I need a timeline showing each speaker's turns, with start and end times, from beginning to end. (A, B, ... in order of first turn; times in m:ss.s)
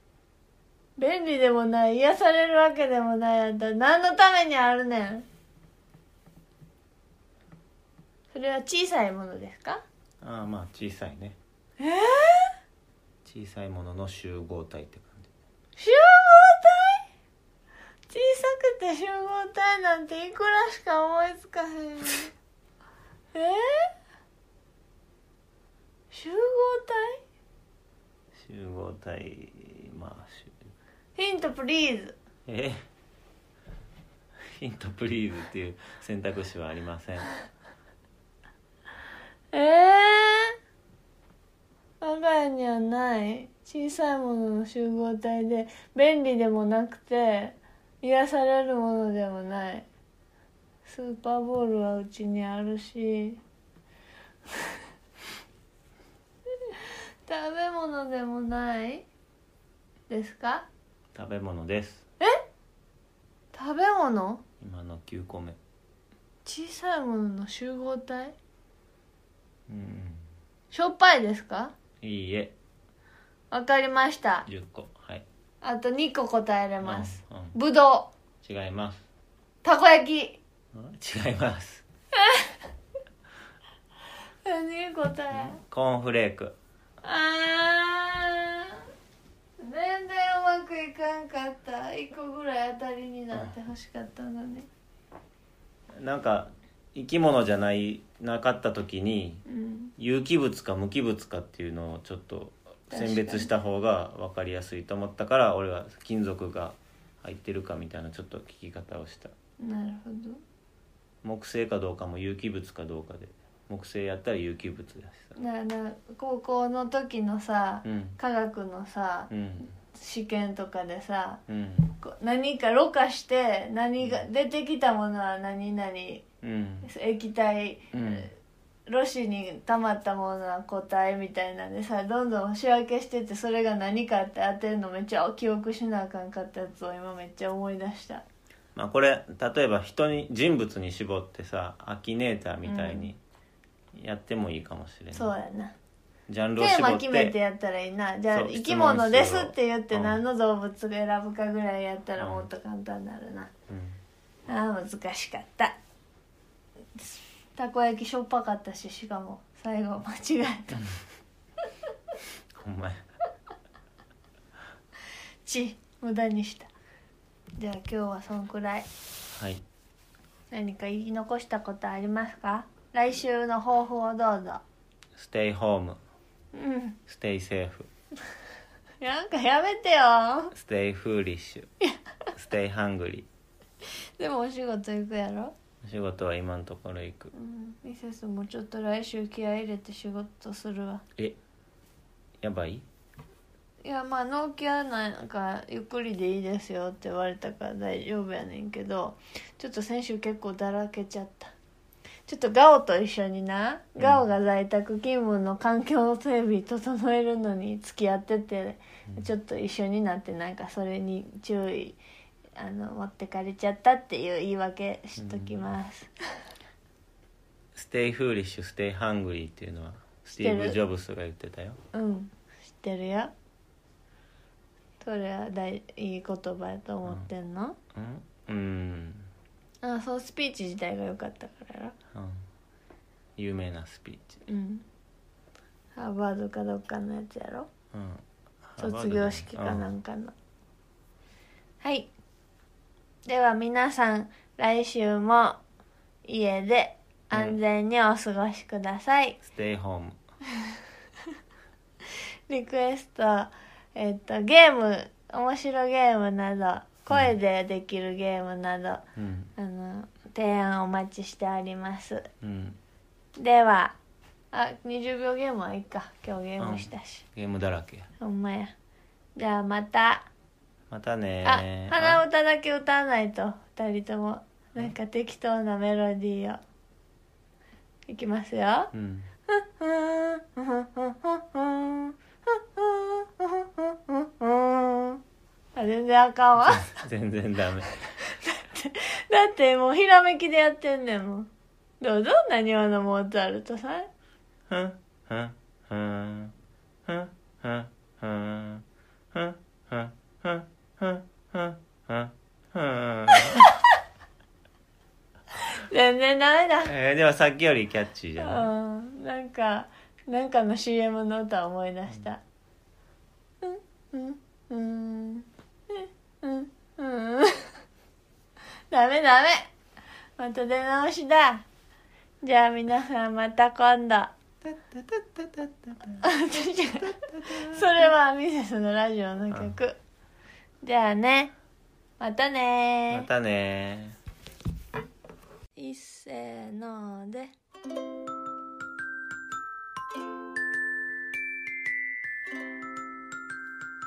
0:01.0-0:05.2 A
0:08.3-0:09.8 A
0:10.2-0:11.4 B
0:11.8-0:12.5 A
0:13.2-0:15.3 B
0:15.8-0:17.0 A
0:18.1-0:22.3 A
0:23.3-0:23.9 A
0:26.1-0:27.2 A
0:28.4-0:30.7 B
0:31.2-0:32.2 A
0:32.5-0:32.8 B
0:34.6-0:37.4 B
0:39.5-0:40.6 A
0:42.0-0:49.9 A
0:50.9-0:53.4 A
0:56.6-0:59.1 A
1:00.1-1:00.7 A
1:01.1-1:02.0 B
1:03.5-1:04.4 A
1:04.6-1:05.6 B
1:06.4-1:08.3 A
1:09.7-1:10.3 B
1:10.7-1:11.8 A
1:12.0-1:12.5 B
1:13.5-1:14.5 A
1:14.5-1:15.2 B
1:15.6-1:18.1 A
1:16.8-1:17.6 B
1:18.4-1:19.1 B
1:19.6-1:20.4 A
1:20.7-1:21.8 B
1:22.2-1:22.6 A
1:24.4-1:25.6 A
1:25.3-1:26.6 B
1:27.0-1:28.8 A
1:29.6-1:34.7 A
1:36.0-1:39.4 B
1:39.5-1:39.9 A
1:40.0-1:49.3 B
1:42.9-1:43.5 A
1:49.6-1:50.4 A
1:51.2-1:55.4 B
1:55.4-1:59.3 A
1:57.8-1:58.2 B
1:59.3-1:59.7 B
1:59.8-2:06.2 A
2:01.5-2:01.9 B
2:06.4-2:06.9 B
2:06.8-2:08.3 A
2:07.9-2:08.3 B
2:08.9-2:18.2 A
2:18.8-2:23.2 B
2:22.6-2:23.1 A
2:23.9-2:25.3 B
2:25.1-2:25.8 A
2:26.3-2:27.4 B
2:26.6-2:33.5 A
2:28.3-2:30.2 B
2:32.2-2:32.5 B
2:33.7-2:34.0 B
2:34.5-2:35.8 A
2:37.0-2:40.9 A
2:42.5-2:43.0 B
2:45.4-2:46.7 A
2:47.6-2:48.9 A
2:49.3-2:49.6 B
2:50.5-2:54.6 A
2:55.2-2:56.0 B
2:56.5-2:57.0 A
2:57.1-2:57.9 B
2:59.0-3:00.6 A
3:00.5-3:01.7 B
3:02.4-3:03.3 B
3:04.2-3:05.5 A
3:05.8-3:07.3 B
3:07.3-3:11.0 A
3:12.4-3:12.8 B
3:13.8-3:21.5 A
3:22.3-3:32.0 A
3:24.0-3:24.3 B
3:32.6-3:36.1 A
3:35.2-3:35.6 B
3:37.8-3:41.8 B
3:40.4-3:40.8 A
3:41.9-3:43.3 A
3:45.0-3:47.8 A
3:47.9-3:49.3 B
3:49.8-3:51.9 A
3:52.1-3:52.4 B
3:53.4-3:54.4 B
3:54.5-3:54.8 A
3:56.0-3:57.7 A
3:57.9-3:59.9 B
3:58.8-4:00.3 A
4:01.8-4:02.1 A
4:03.2-4:05.6 A
4:06.3-4:09.4 A
4:07.3-4:07.6 B
4:09.4-4:10.2 B
4:12.5-4:19.0 A
4:19.2-4:19.5 B
4:19.6-4:22.3 A
4:22.4-4:22.8 B
4:23.4-4:24.0 A
4:24.5-4:27.2 A
4:26.6-4:28.1 B
4:28.2-4:28.7 A
4:29.4-4:30.3 A
4:30.9-4:32.2 B
4:31.4-4:36.6 A
4:38.1-4:38.9 A
4:38.9-4:39.3 B
4:39.5-4:45.2 A
4:45.8-4:47.0 A
4:46.7-4:48.2 B
4:48.2-4:51.5 A
4:52.0-4:54.1 A
4:54.7-4:56.5 B
4:57.1-5:03.7 B
5:03.4-5:03.9 A
5:05.6-5:06.9 A
5:06.8-5:08.7 B
5:08.4-5:12.4 A
5:13.6-5:17.7 A
5:18.9-5:19.7 A
5:20.4-5:21.6 A
5:22.4-5:24.3 A
5:24.6-5:26.2 B
5:26.2-5:30.0 A
5:27.0-5:28.1 B
5:29.5-5:29.8 B
5:30.8-5:31.5 A
5:32.2-5:33.3 A
5:33.1-5:34.2 B
5:35.8-5:37.5 A